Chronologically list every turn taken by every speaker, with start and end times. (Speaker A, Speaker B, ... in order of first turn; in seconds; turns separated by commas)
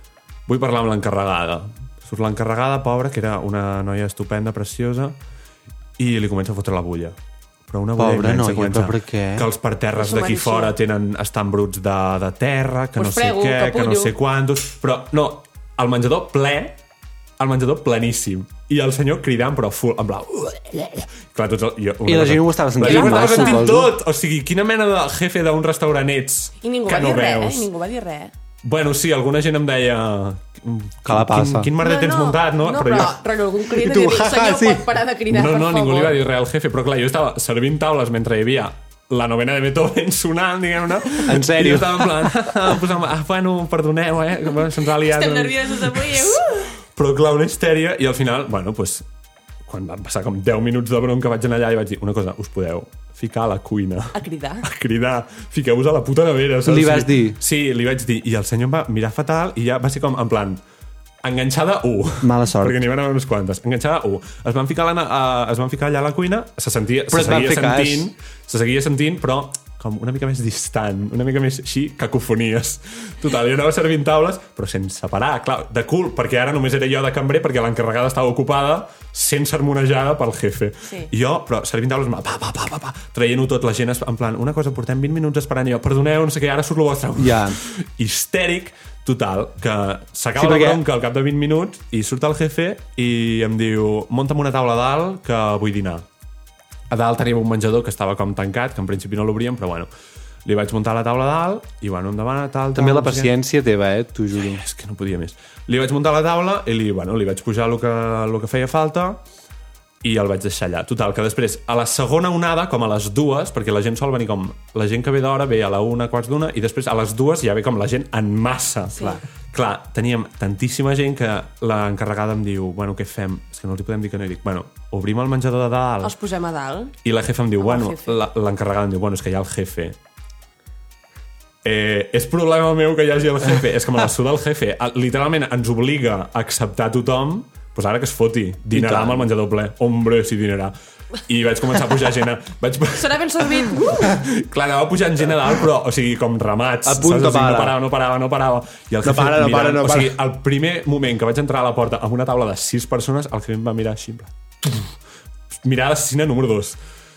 Speaker A: 0.5-5.2, Speaker A: 6.0-7.2, Speaker A: 7.7-16.8, Speaker B: 8.0-9.5, Speaker C: 10.0-10.8, Speaker C: 13.0-14.1, Speaker A: 17.4-27.7, Speaker B: 22.1-23.9, Speaker C: 22.8-23.6, Speaker C: 26.6-28.3, Speaker A: 28.6-33.2, Speaker B: 31.1-31.7, Speaker C: 31.8-36.2, Speaker B: 33.7-34.9, Speaker A: 35.3-49.0, Speaker B: 41.3-42.3, Speaker C: 44.9-46.7, Speaker A: 49.7-60.6, Speaker C: 54.1-54.6, Speaker B: 56.6-57.4, Speaker A: 61.2-96.0, Speaker B: 62.2-62.8, Speaker B: 67.1-68.1, Speaker C: 80.8-81.1, Speaker B: 87.2-87.6, Speaker B: 90.4-90.8, Speaker A: 96.9-99.9, Speaker A: 100.5-103.3, Speaker B: 102.8-104.6, Speaker A: 104.4-109.2, Speaker A: 110.0-126.1, Speaker C: 118.9-119.2, Speaker C: 126.0-126.9, Speaker A: 127.0-130.0, Speaker C: 127.6-128.2, Speaker A: 131.6-140.7, Speaker B: 138.7-139.3, Speaker A: 141.2-154.9, Speaker C: 143.0-144.2, Speaker B: 146.8-147.8, Speaker B: 149.0-150.2, Speaker A: 155.6-156.8